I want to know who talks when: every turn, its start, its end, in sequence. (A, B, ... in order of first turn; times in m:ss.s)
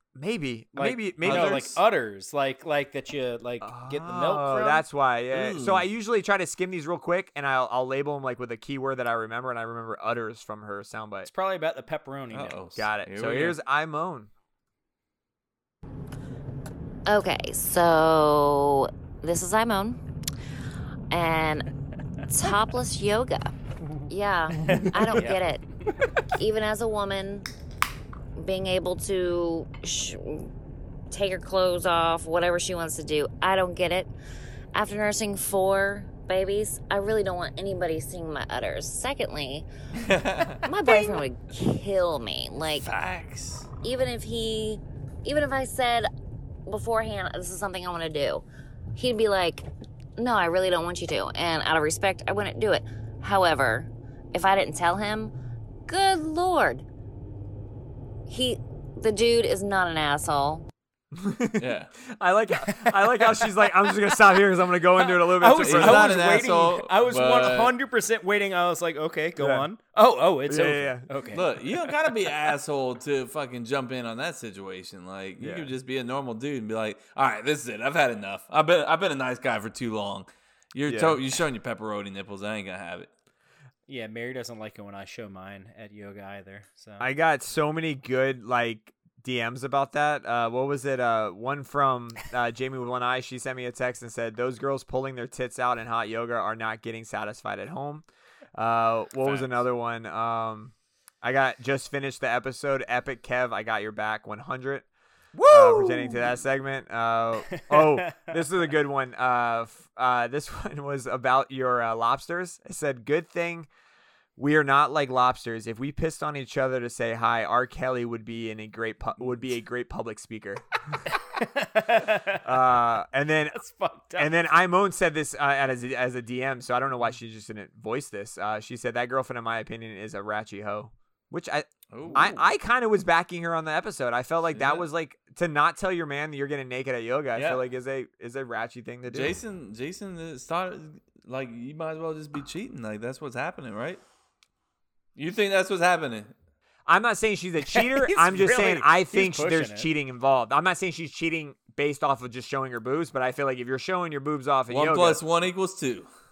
0:00.1-0:01.8 A
0:00.7-0:04.8 B
0:01.2-0:01.8 C
0:03.6-0:11.3 A
0:05.3-0:05.9 C
0:11.3-0:12.6 B
0:12.3-0:13.6 C
0:12.7-0:14.3 A
0:17.0-0:20.0 D
0:21.1-0:21.7 D
0:22.3-0:23.5 D
0:24.1-0:25.6 D
0:24.7-0:25.5 B
0:26.3-0:27.4 D
0:28.4-0:30.5 D
0:31.1-0:34.1 D
0:34.7-0:39.7 D
0:40.0-0:41.2 C
0:40.6-0:42.9 D
0:42.7-0:43.7 C
0:43.8-0:46.1 D
0:46.6-0:55.3 D
0:55.9-0:56.8 D
0:58.3-1:00.6 D
1:01.1-1:06.4 A
1:01.6-1:01.9 C
1:05.1-1:12.1 B
1:05.5-1:07.7 C
1:09.4-1:09.7 A
1:10.5-1:11.1 A
1:11.3-1:23.1 C
1:15.4-1:15.7 A
1:20.8-1:21.2 A
1:23.9-1:27.0 B
1:27.0-1:44.8 A
1:39.2-1:39.5 C
1:45.4-1:45.8 C
1:45.5-1:53.7 A
1:47.6-1:48.3 B
1:54.4-2:01.0 A
2:01.2-2:02.4 B
2:02.4-2:03.6 A
2:03.6-2:04.3 B
2:04.2-2:19.4 A
2:11.9-2:12.5 C
2:14.5-2:14.8 C
2:17.4-2:17.6 C
2:19.1-2:24.0 C
2:25.2-2:26.3 C
2:26.9-2:35.2 A
2:27.7-2:29.9 B
2:34.7-2:36.1 C